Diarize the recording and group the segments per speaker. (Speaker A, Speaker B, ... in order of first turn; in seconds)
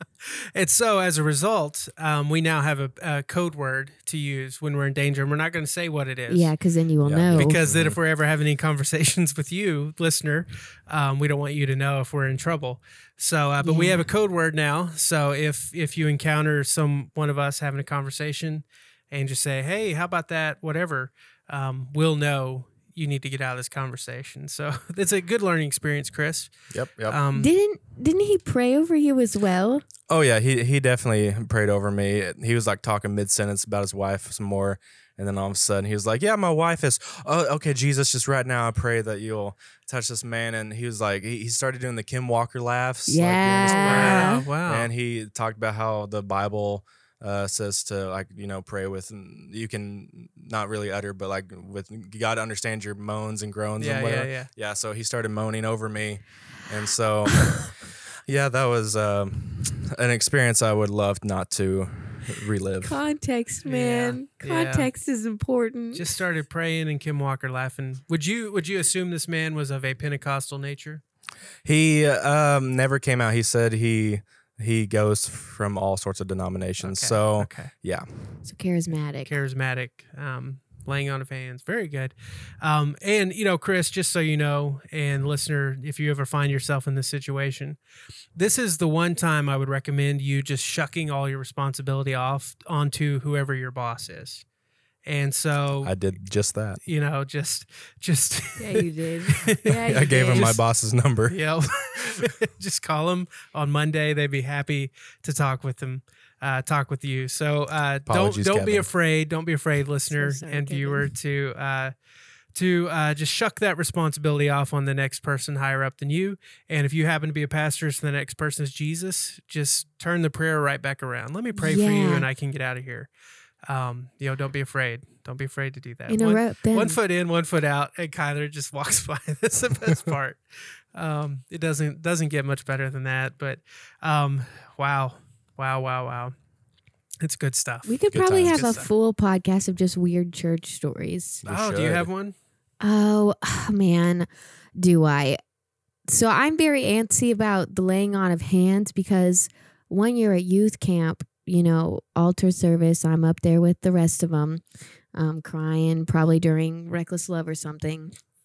Speaker A: 0.2-6.5, 7.3-27.5, 43.6-44.9, 53.8-54.5, 63.6-64.9, 65.9-71.0, 76.8-77.7, 79.2-87.8, 88.3-94.5, 95.0-96.0, 96.8-100.6, 101.3-111.9, 112.5-123.1, 123.7-136.3, 137.2-138.9, 141.5-142.3
Speaker B: 6.3-7.6, 13.6-14.1, 27.4-29.8, 43.1-44.5, 62.8-66.1, 78.5-79.3, 98.6-100.6, 110.1-111.1, 121.6-122.3, 126.1-127.0, 137.9-141.4, 142.8-145.4, 146.1-154.6, 155.1-158.1
Speaker C: 7.0-8.0, 26.7-27.2, 30.1-63.0, 71.6-78.5, 95.8-96.8, 99.8-101.4, 108.1-108.9, 138.1-138.7, 141.4-142.1